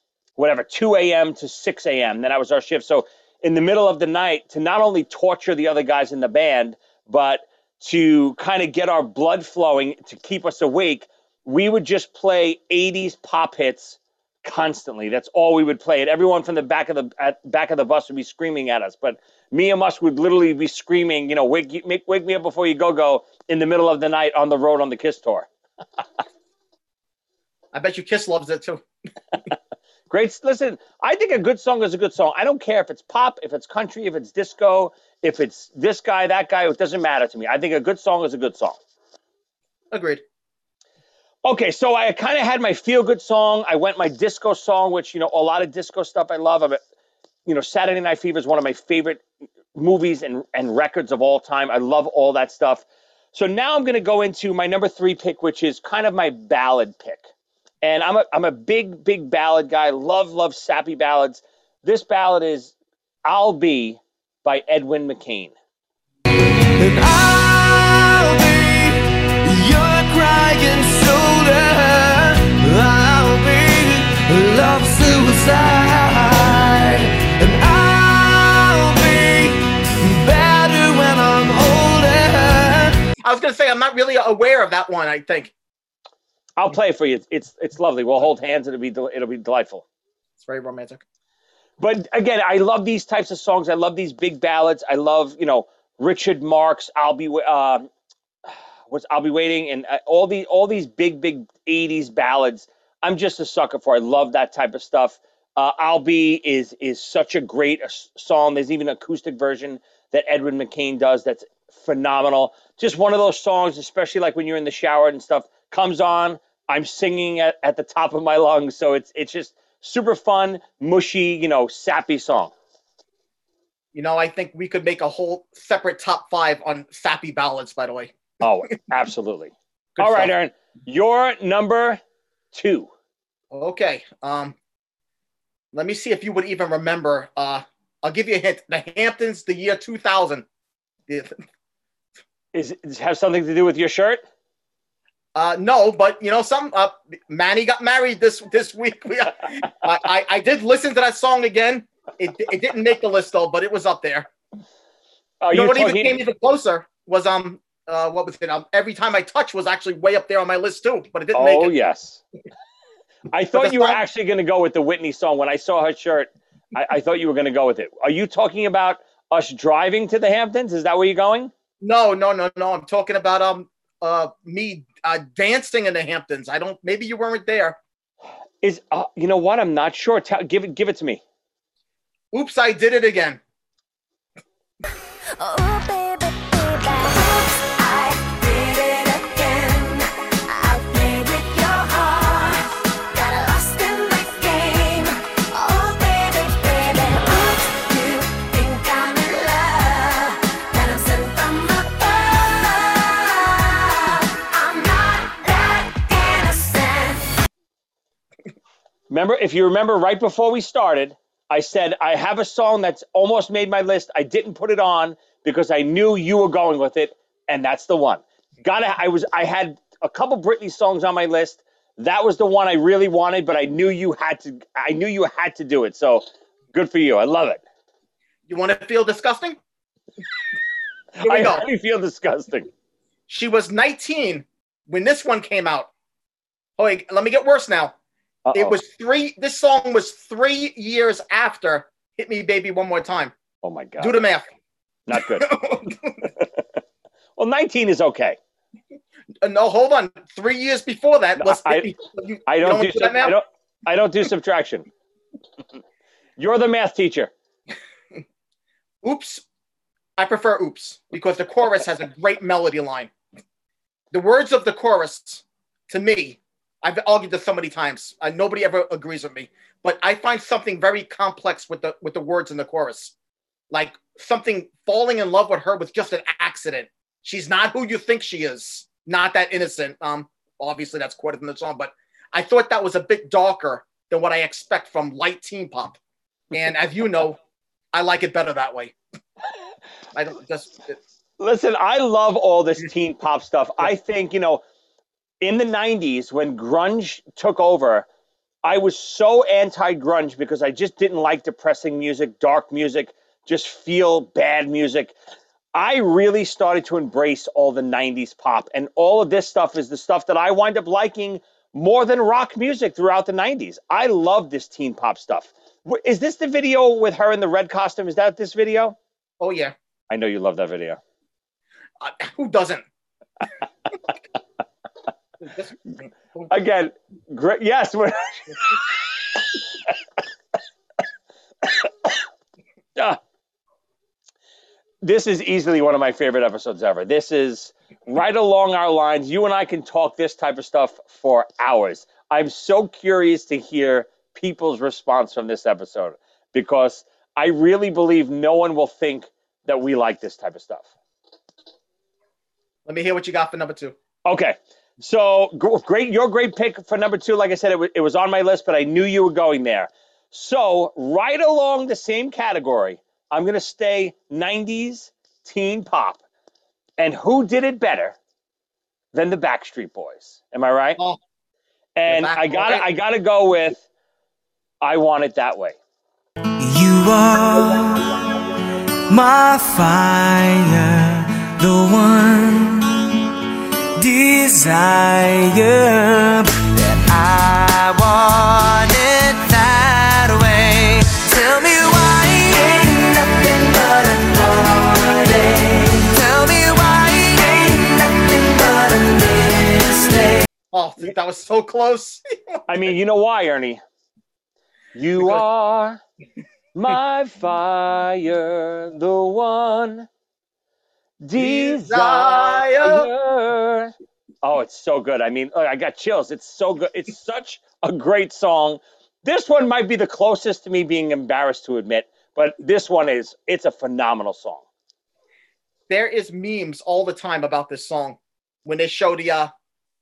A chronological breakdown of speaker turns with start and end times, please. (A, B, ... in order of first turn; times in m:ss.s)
0:00.4-0:25.5 A
0:27.7-0:28.8 B
0:30.1-0:38.8 A
0:39.9-0:40.2 B
0:41.4-0:46.8 A
0:47.4-0:57.2 A
0:57.8-1:02.7 A
1:03.2-1:05.5 A
1:06.8-1:22.9 C
1:23.2-1:25.5 B
1:26.6-1:29.8 A
1:30.4-1:31.0 B
1:31.8-1:37.9 A
1:38.9-2:02.5 A
2:03.9-2:08.2 B
2:08.4-2:12.0 A
2:09.9-2:10.3 B
2:12.5-2:12.9 A
2:13.5-2:14.6 B
2:15.7-2:20.4 B
2:21.1-2:21.4 B
2:22.5-2:24.2 A
2:25.3-2:34.3 B
2:35.4-2:36.2 A
2:35.5-2:41.7 B
2:41.3-2:42.2 A
2:43.3-2:51.5 A
2:43.5-2:44.0 B
2:51.8-2:57.8 B
2:58.6-3:01.2 A
3:02.3-3:03.4 B
3:05.4-3:27.2 D
3:29.1-3:47.6 A
3:48.5-3:49.6 B
3:51.2-3:51.6 B
3:51.2-3:52.7 A
3:53.3-3:55.9 B
3:56.8-3:57.9 B
3:58.4-3:58.8 A
3:58.5-4:03.3 B
4:03.6-4:04.2 A
4:04.0-4:04.5 B
4:05.1-4:05.5 A
4:05.3-4:06.2 B
4:07.4-4:08.4 A
4:09.4-4:13.4 B
4:11.4-4:11.9 A
4:12.5-4:14.9 A
4:16.4-4:17.3 A
4:19.0-4:19.4 B
4:20.2-4:23.1 B
4:24.1-4:33.1 B
4:33.7-4:46.0 B
4:46.5-4:47.4 B
4:47.9-4:48.9 B
4:50.1-4:51.0 B
4:51.4-4:54.6 A
4:55.4-4:58.1 A
4:58.6-5:05.1 A
5:05.7-5:19.0 A
5:19.4-5:19.7 B
5:20.1-5:21.0 A
5:22.0-5:22.8 B
5:25.4-5:25.7 B
5:26.5-5:28.7 A
5:31.6-5:32.1 A
5:35.0-5:50.9 A
5:52.8-5:53.9 B
5:54.2-6:06.2 A
6:07.0-6:08.2 A
6:09.1-6:11.0 A
6:12.0-6:13.8 A
6:12.1-6:12.8 B
6:14.8-6:15.8 A
6:16.6-6:18.1 C
6:19.1-6:23.0 C
6:24.0-6:40.4 C
6:40.7-6:42.6 B
6:42.7-6:43.8 A
6:44.9-6:46.0 A
6:46.7-6:50.1 A
6:51.2-6:53.9 A
6:51.4-6:53.1 B
6:54.4-7:04.6 A
7:05.9-7:09.5 B